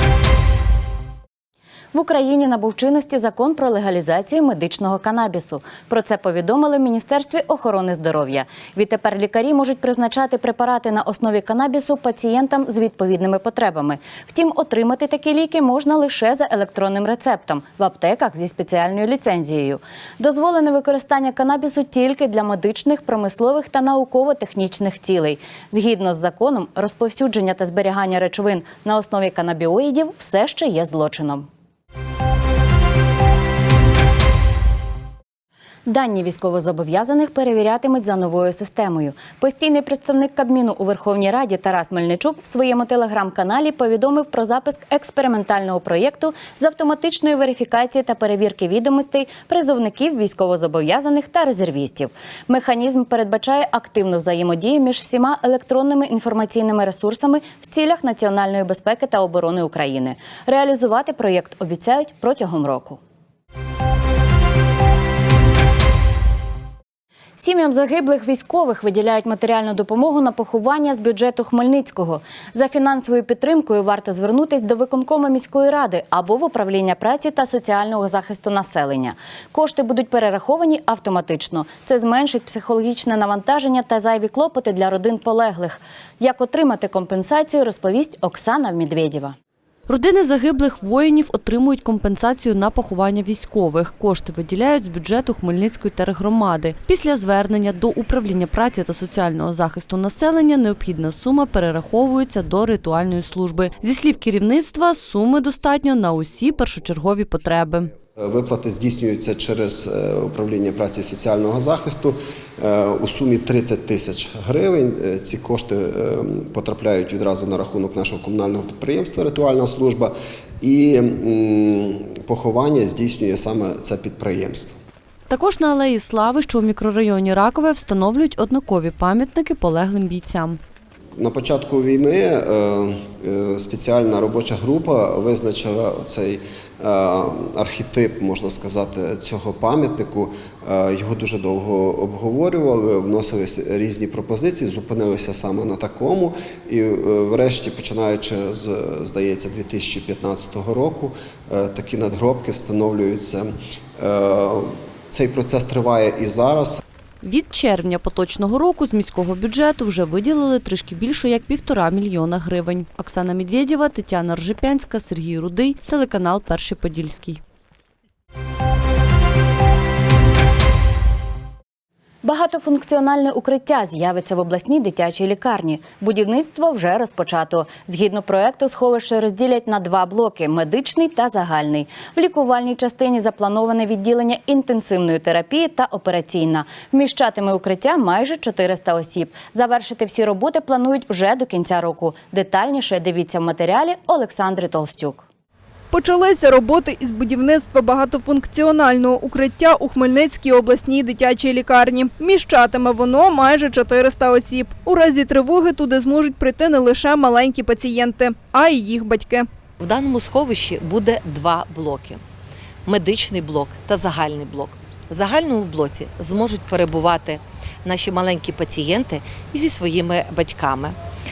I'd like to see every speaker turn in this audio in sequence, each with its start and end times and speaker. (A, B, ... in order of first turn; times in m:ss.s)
0:01.9-0:31.5 A
0:35.9-1:03.0 A
1:07.4-1:29.4 A
1:29.9-1:47.9 B
1:48.2-2:04.8 C
2:05.3-2:10.6 B
2:11.2-2:36.8 C
2:37.2-2:47.4 B
2:52.2-3:15.3 A
3:15.9-3:29.5 D
3:29.8-3:32.2 E
3:32.9-3:41.0 E